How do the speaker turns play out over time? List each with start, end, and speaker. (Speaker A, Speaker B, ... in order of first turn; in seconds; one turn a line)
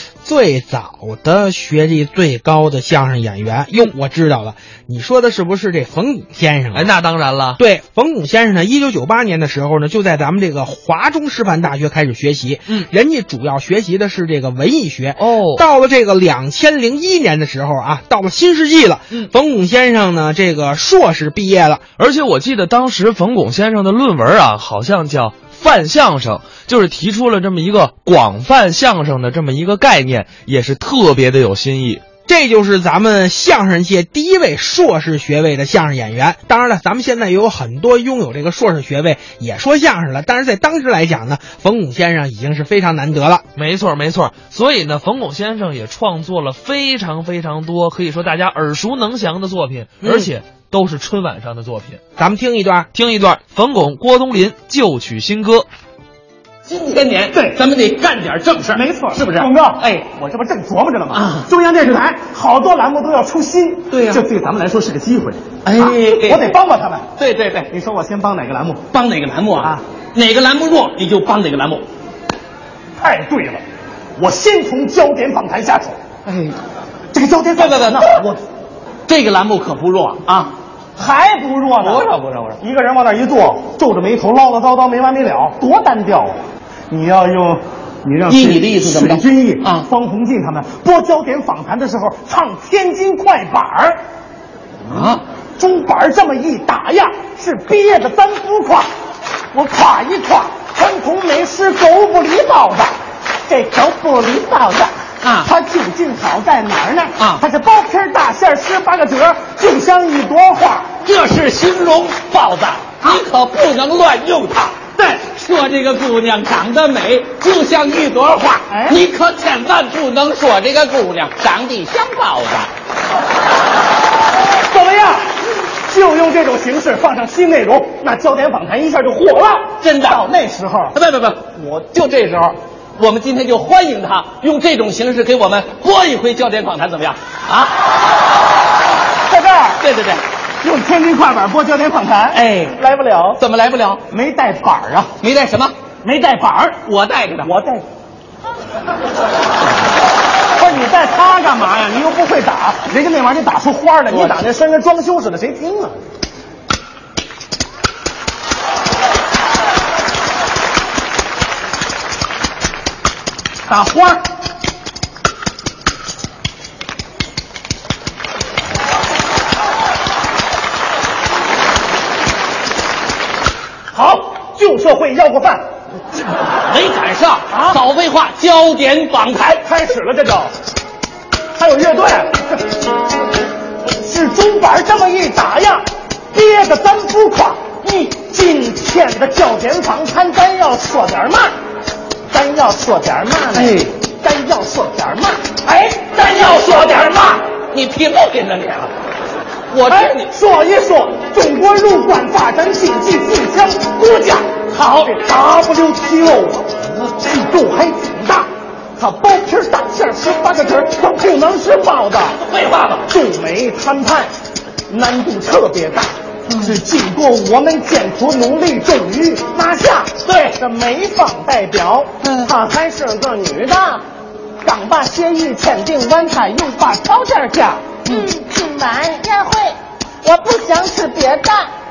Speaker A: 0.2-6.9
Speaker B: 6.7-7.6
Speaker A: 7.6-21.8
Speaker B: 15.2-15.6
Speaker B: 22.0-32.0
Speaker A: 32.2-43.4
Speaker B: 43.5-52.0
Speaker A: 50.0-50.3
Speaker A: 52.2-52.9
Speaker B: 52.9-55.7
Speaker C: 56.6-60.1
Speaker D: 57.3-57.6
Speaker D: 58.7-67.1
Speaker C: 61.1-61.5
Speaker C: 63.9-64.2
Speaker C: 65.6-66.5
Speaker C: 67.2-67.7
Speaker D: 67.7-68.8
Speaker C: 68.9-71.8
Speaker D: 73.0-73.6
Speaker D: 74.2-76.0
Speaker C: 76.2-76.5
Speaker D: 77.1-78.4
Speaker C: 77.5-78.2
Speaker C: 79.1-80.5
Speaker D: 81.0-94.0
Speaker C: 81.8-82.6
Speaker C: 88.3-89.8
Speaker C: 94.9-95.2
Speaker D: 95.6-98.9
Speaker D: 99.5-110.9
Speaker C: 105.2-105.5
Speaker C: 111.0-122.7
Speaker D: 118.7-119.0
Speaker D: 124.7-125.2
Speaker D: 125.8-131.0
Speaker C: 129.8-130.2
Speaker C: 130.9-137.8
Speaker D: 139.3-139.8
Speaker C: 139.8-140.2
Speaker D: 140.6-143.4
Speaker C: 142.3-142.8
Speaker C: 143.4-144.0
Speaker D: 144.1-145.1
Speaker C: 145.2-145.7
Speaker D: 146.0-146.8
Speaker C: 146.8-147.5
Speaker D: 147.4-147.8
Speaker D: 150.6-156.0
Speaker C: 154.1-154.4
Speaker D: 163.7-164.2
Speaker D: 173.9-175.6
Speaker C: 176.4-179.6
Speaker D: 177.5-177.8
Speaker D: 179.6-180.5
Speaker D: 181.5-182.6
Speaker D: 183.8-191.5
Speaker D: 192.3-197.4
Speaker C: 193.5-193.9
Speaker C: 195.9-198.9
Speaker C: 199.7-200.3
Speaker D: 199.8-208.5
Speaker C: 204.7-205.1
Speaker D: 209.0-212.4
Speaker C: 212.3-213.1
Speaker D: 213.1-214.3
Speaker D: 214.9-224.0
Speaker C: 220.3-220.6
Speaker C: 222.2-222.5
Speaker D: 224.6-228.0
Speaker E: 228.1-231.7